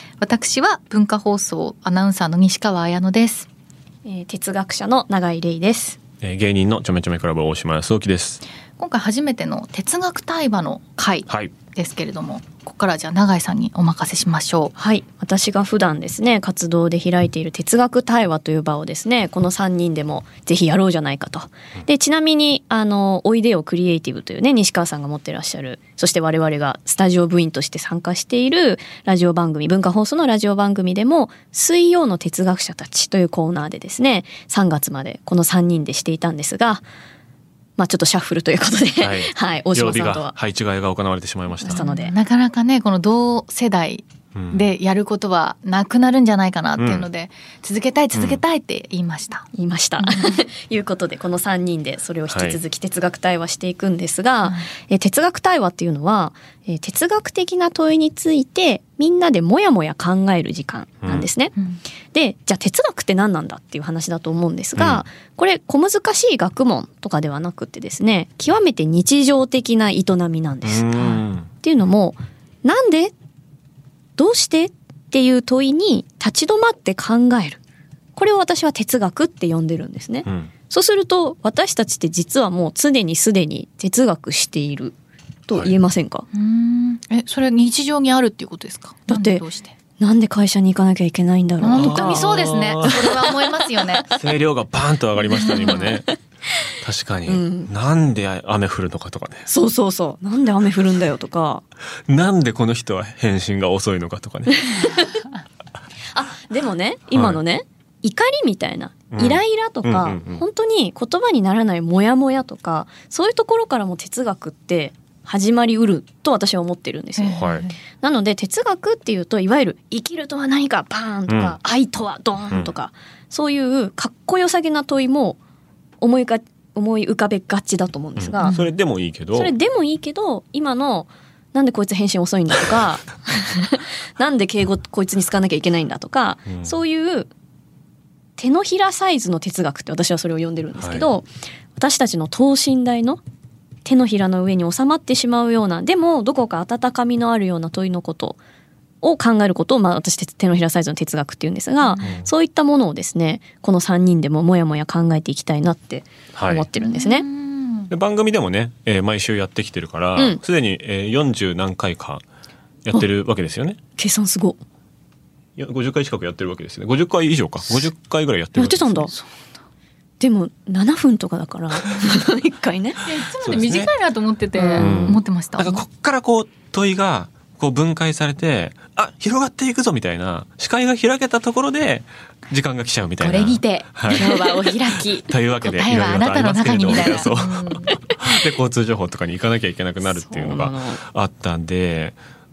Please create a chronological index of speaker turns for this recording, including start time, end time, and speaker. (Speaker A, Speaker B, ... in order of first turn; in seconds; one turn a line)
Speaker A: 0.2-3.5
Speaker B: 4.0-6.0
Speaker C: 6.2-8.4
Speaker A: 8.8-10.9
Speaker B: 11.0-11.2
Speaker C: 11.3-11.5
Speaker A: 11.7-14.7
Speaker B: 14.7-36.8
Speaker B: 37.8-40.3
Speaker C: 39.0-41.8
Speaker A: 41.6-49.5
Speaker B: 41.7-42.1
Speaker C: 44.3-44.6
Speaker C: 46.8-47.0
Speaker C: 48.1-48.4
Speaker B: 49.5-61.5
Speaker A: 50.0-50.4
Speaker C: 52.3-52.6
Speaker C: 61.0-61.3
Speaker B: 62.1-73.1
Speaker C: 64.8-65.0
Speaker C: 70.6-71.5
Speaker B: 74.2-77.6
Speaker B: 78.2-84.9
Speaker C: 80.2-80.5
Speaker B: 85.5-86.2
Speaker A: 86.3-89.7
Speaker B: 89.1-89.4
Speaker B: 90.0-93.1
Speaker A: 91.6-94.1
Speaker C: 91.7-93.2
Speaker C: 94.1-96.1
Speaker B: 95.3-96.1
Speaker A: 95.5-95.9
Speaker C: 96.8-99.5
Speaker B: 97.3-97.7
Speaker B: 99.5-101.6
Speaker C: 102.1-104.9
Speaker B: 104.5-105.2
Speaker B: 106.1-125.4
Speaker C: 107.1-107.4
Speaker C: 109.1-110.4
Speaker A: 117.2-117.7
Speaker C: 117.3-117.7
Speaker C: 121.3-121.6
Speaker B: 126.0-128.6
Speaker C: 128.2-129.5
Speaker A: 128.4-128.7
Speaker B: 129.3-137.3
Speaker C: 136.5-136.7
Speaker B: 138.4-143.2
Speaker C: 140.8-141.1
Speaker B: 143.8-148.4
Speaker B: 149.0-157.2
Speaker A: 151.8-152.1
Speaker C: 152.0-152.3
Speaker C: 156.3-156.7
Speaker A: 156.8-157.9
Speaker C: 157.9-162.2
Speaker C: 162.8-163.8
Speaker B: 164.0-164.6
Speaker C: 165.6-169.1
Speaker B: 168.6-169.1
Speaker B: 170.2-173.0
Speaker A: 173.0-175.8
Speaker C: 173.4-173.9
Speaker B: 174.6-175.2
Speaker C: 174.7-184.4
Speaker A: 183.2-188.0
Speaker B: 184.1-184.6
Speaker C: 185.2-192.2
Speaker B: 190.0-191.0